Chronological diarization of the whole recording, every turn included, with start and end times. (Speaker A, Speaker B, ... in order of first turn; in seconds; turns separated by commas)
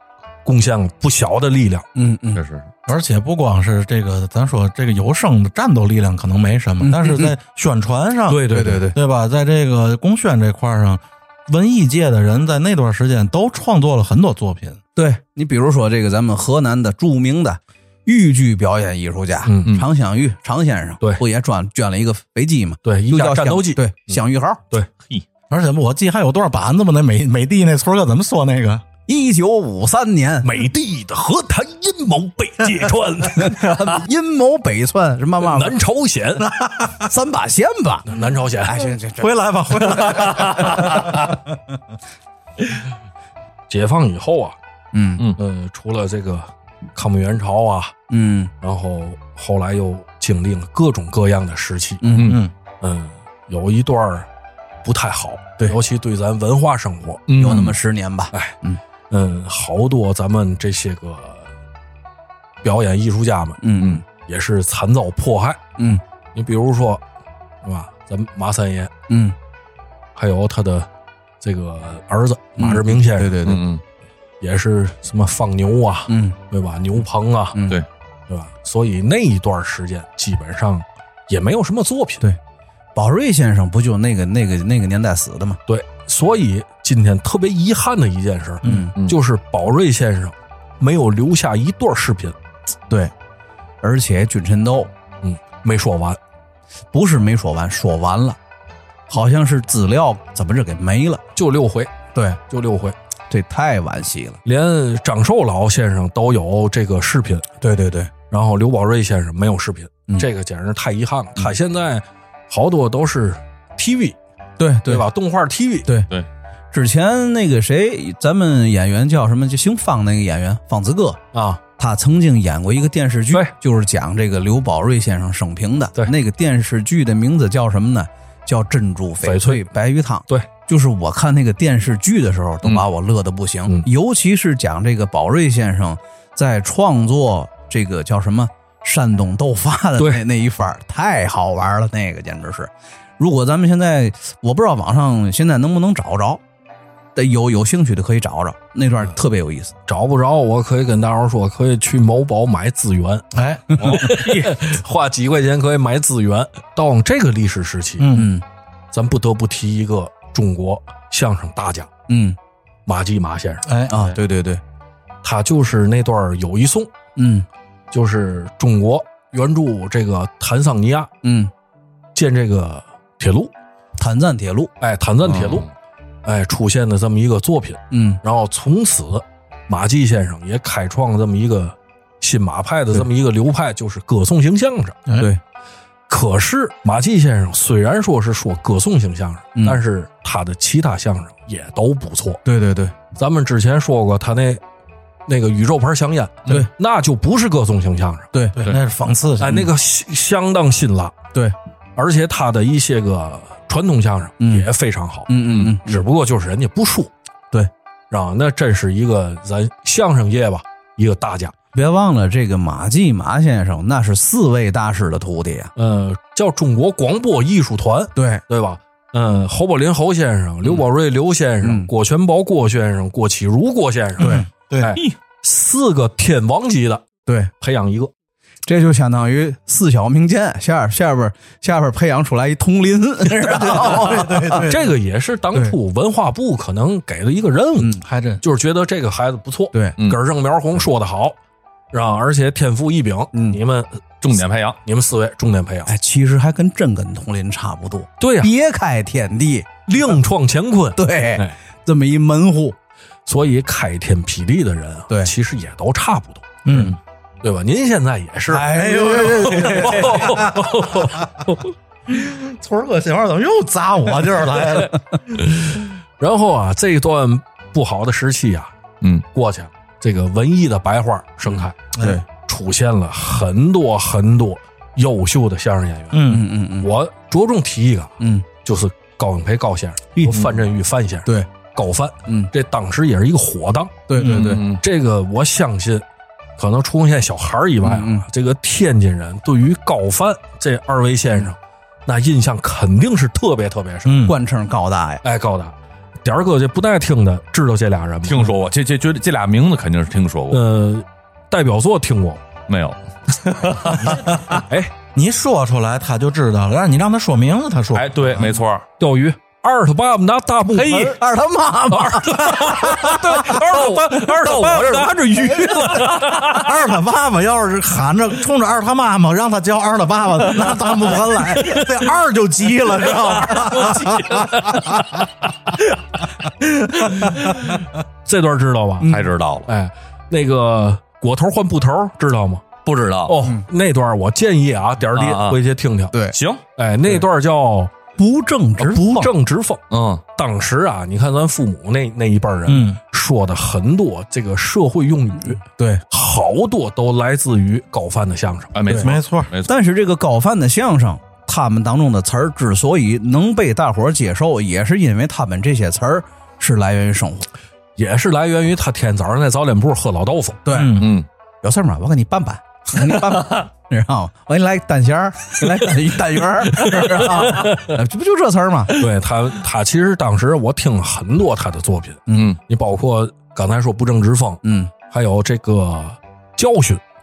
Speaker A: 0.5-1.9, Speaker B: 1.9-2.4, Speaker C: 2.4-2.7, Speaker D: 2.9-14.8, Speaker B: 6.8-7.4, Speaker A: 8.3-8.8, Speaker B: 8.5-9.0, Speaker B: 15.0-24.6, Speaker A: 19.4-19.8, Speaker A: 22.9-24.9, Speaker D: 25.5-28.8, Speaker B: 29.1-30.6, Speaker A: 30.4-34.0, Speaker B: 33.4-35.8, Speaker A: 35.5-36.5, Speaker D: 36.4-37.0, Speaker B: 37.0-38.1, Speaker A: 38.1-38.9, Speaker B: 38.6-40.5, Speaker D: 39.2-41.5, Speaker C: 40.4-41.1, Speaker A: 43.7-44.6, Speaker B: 44.9-45.2, Speaker A: 45.4-48.0, Speaker B: 48.1-48.5, Speaker A: 48.6-52.0, Speaker B: 52.0-52.4, Speaker D: 52.2-52.5, Speaker A: 52.8-54.3, Speaker A: 54.8-57.7, Speaker C: 57.3-57.8, Speaker B: 57.4-58.8, Speaker A: 59.1-61.5, Speaker A: 62.6-63.6, Speaker B: 63.6-64.0, Speaker A: 64.2-65.6, Speaker A: 66.3-67.0, Speaker A: 67.6-68.9, Speaker B: 69.1-69.3, Speaker A: 70.2-70.9, Speaker A: 71.4-73.4, Speaker B: 72.6-73.6, Speaker C: 73.4-73.8, Speaker A: 74.4-77.6, Speaker B: 76.1-76.4, Speaker B: 77.5-77.8, Speaker A: 78.3-82.2, Speaker B: 83.0-85.6, Speaker A: 85.7-92.4, Speaker B: 88.6-89.0, Speaker B: 93.8-94.9, Speaker A: 95.2-96.2, Speaker B: 96.9-98.4, Speaker B: 99.1-101.2, Speaker A: 101.3-103.0, Speaker B: 102.2-102.4, Speaker B: 103.3-104.4, Speaker A: 104.5-107.5, Speaker B: 107.6-108.1, Speaker A: 108.3-114.2, Speaker B: 114.6-115.1, Speaker A: 114.9-115.9, Speaker B: 116.7-121.2, Speaker A: 121.3-121.6, Speaker B: 121.8-146.4, Speaker A: 129.2-129.6, Speaker A: 140.0-140.2, Speaker B: 147.2-149.7, Speaker A: 149.9-153.3, Speaker D: 153.3-153.7, Speaker B: 153.8-154.0, Speaker A: 153.8-158.1, Speaker C: 153.9-154.5, Speaker D: 158.0-158.3, Speaker B: 158.1-158.4, Speaker A: 158.9-161.9, Speaker B: 162.1-162.4, Speaker A: 162.9-163.7, Speaker D: 163.7-163.9, Speaker B: 163.9-164.6, Speaker A: 165.2-166.9, Speaker B: 167.2-167.5, Speaker A: 167.9-171.1, Speaker B: 171.2-171.5, Speaker A: 172.2-173.5, Speaker B: 174.0-174.7, Speaker A: 174.8-175.7, Speaker C: 175.2-175.7, Speaker A: 176.2-185.0, Speaker B: 177.9-178.2, Speaker A: 186.1-192.4, Speaker B: 192.4-192.9, Speaker A: 193.2-194.6, Speaker A: 195.3-198.3, Speaker B: 198.3-198.6, Speaker D: 198.6-199.7, Speaker A: 199.4-201.2, Speaker A: 202.0-207.1, Speaker B: 204.4-204.7, Speaker B: 205.3-206.0, Speaker A: 208.1-211.5, Speaker B: 211.7-215.7, Speaker A: 215.8-227.1, Speaker B: 218.2-218.4, Speaker B: 221.6-221.9, Speaker B: 224.2-224.4, Speaker D: 224.2-225.0, Speaker B: 227.3-227.5, Speaker A: 227.6-228.1, Speaker B: 228.7-234.7, Speaker D: 233.5-234.9, Speaker A: 234.6-241.4, Speaker B: 237.8-238.1, Speaker D: 238.1-238.4, Speaker A: 241.9-244.0, Speaker B: 243.3-243.6, Speaker C: 244.2-244.8, Speaker A: 244.8-245.9, Speaker B: 245.9-249.7, Speaker A: 248.2-248.5, Speaker A: 249.9-251.6, Speaker B: 251.0-252.8, Speaker A: 253.3-256.9, Speaker D: 256.6-257.0, Speaker A: 257.4-261.7, Speaker D: 258.5-261.3, Speaker B: 258.6-260.3, Speaker D: 262.1-265.4, Speaker A: 265.4-268.7, Speaker A: 269.3-271.8, Speaker D: 271.9-272.2, Speaker B: 272.0-272.2, Speaker A: 272.4-276.2, Speaker D: 276.1-276.4, Speaker B: 276.3-276.9, Speaker A: 276.8-284.0, Speaker B: 278.2-278.5, Speaker B: 280.2-280.5, Speaker B: 284.1-284.6, Speaker D: 284.2-284.6, Speaker C: 284.2-284.8, Speaker A: 284.7-286.1, Speaker A: 286.6-294.2, Speaker B: 287.8-288.2, Speaker D: 294.1-294.4, Speaker B: 294.2-295.2, Speaker A: 295.2-298.5, Speaker C: 298.2-300.6, Speaker A: 300.5-302.4, Speaker C: 302.7-304.4, Speaker A: 304.0-304.9, Speaker D: 305.1-308.5, Speaker C: 307.9-308.9, Speaker A: 309.0-311.2, Speaker C: 310.7-311.2, Speaker B: 310.9-313.6, Speaker A: 311.9-316.7, Speaker C: 313.5-315.1, Speaker D: 314.9-325.2, Speaker B: 315.3-316.0, Speaker C: 315.9-316.6, Speaker A: 321.6-321.9, Speaker A: 323.2-325.8, Speaker C: 323.6-324.4, Speaker D: 326.6-327.8, Speaker A: 327.0-329.1, Speaker B: 329.0-329.3, Speaker C: 329.1-329.7, Speaker A: 329.7-332.7, Speaker C: 332.9-333.4, Speaker A: 333.3-336.1, Speaker C: 335.1-335.6, Speaker C: 336.3-336.6, Speaker A: 336.8-337.9, Speaker B: 338.2-339.3, Speaker A: 338.8-348.8, Speaker C: 339.9-340.2, Speaker D: 342.7-343.0, Speaker B: 345.8-346.0, Speaker C: 348.7-349.7, Speaker D: 348.9-349.5, Speaker B: 349.6-357.5, Speaker A: 358.0-360.6, Speaker B: 360.6-361.0, Speaker D: 360.7-361.1, Speaker C: 361.0-361.3, Speaker B: 361.6-369.0, Speaker A: 366.8-368.0, Speaker A: 369.0-377.0, Speaker B: 372.3-372.5, Speaker C: 372.3-372.6, Speaker B: 374.6-374.9